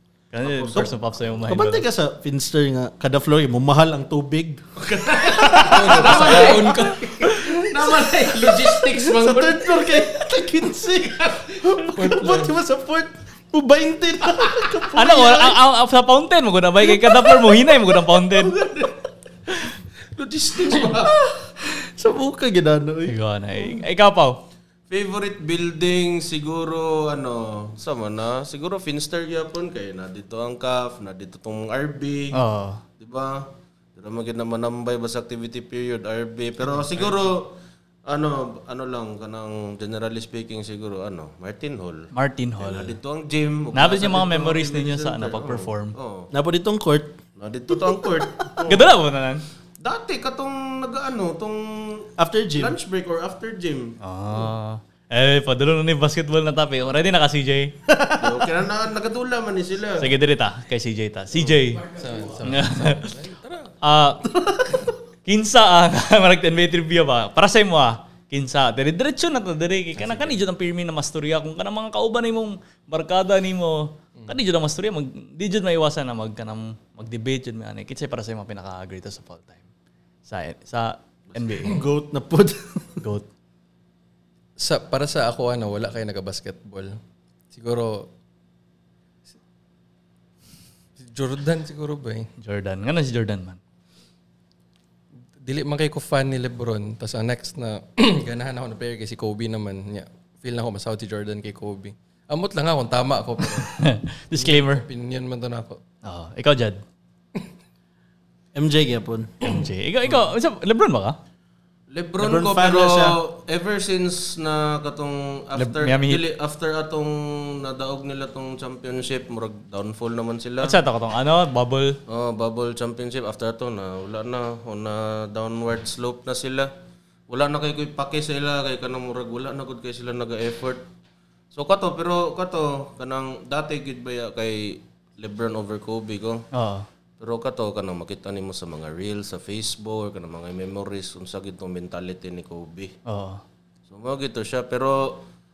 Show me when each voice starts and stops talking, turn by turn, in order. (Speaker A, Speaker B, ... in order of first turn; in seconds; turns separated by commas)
Speaker A: 0.3-1.8, Speaker B: 0.4-0.9, Speaker C: 1.4-15.6, Speaker B: 4.8-10.5, Speaker D: 5.7-7.1, Speaker B: 11.2-11.7, Speaker D: 11.9-12.6, Speaker A: 14.9-18.6, Speaker C: 17.0-17.5, Speaker B: 18.4-19.0, Speaker B: 20.1-21.1, Speaker C: 20.9-23.1, Speaker A: 23.1-24.4, Speaker B: 24.9-32.4, Speaker A: 32.3-32.8, Speaker B: 33.0-46.3, Speaker A: 42.1-42.9, Speaker A: 43.7-46.0, Speaker C: 46.3-47.2, Speaker B: 47.4-48.9, Speaker C: 47.7-48.5, Speaker A: 48.6-49.4, Speaker B: 49.8-54.5, Speaker C: 52.2-52.8, Speaker A: 54.0-57.7, Speaker C: 57.9-58.5, Speaker B: 58.2-60.1, Speaker A: 60.0-61.8, Speaker D: 61.8-63.7, Speaker A: 62.4-63.1, Speaker A: 63.8-64.2, Speaker C: 64.3-64.8, Speaker A: 65.2-79.6, Speaker B: 70.0-70.3, Speaker A: 80.3-81.8, Speaker C: 81.6-83.0, Speaker A: 83.0-83.3, Speaker D: 84.6-87.0, Speaker D: 87.5-88.1, Speaker D: 91.0-92.3, Speaker A: 92.4-93.6, Speaker D: 95.4-103.7, Speaker A: 103.7-104.8, Speaker D: 104.3-105.8, Speaker A: 106.0-106.8, Speaker C: 108.5-109.5, Speaker A: 109.4-111.2, Speaker B: 111.9-120.8, Speaker C: 112.2-113.2, Speaker A: 115.5-116.2, Speaker A: 120.6-122.0, Speaker B: 122.1-126.7, Speaker B: 127.3-130.8, Speaker B: 131.5-136.4, Speaker A: 136.5-136.9, Speaker B: 137.2-143.0, Speaker A: 143.1-143.4, Speaker B: 143.9-145.3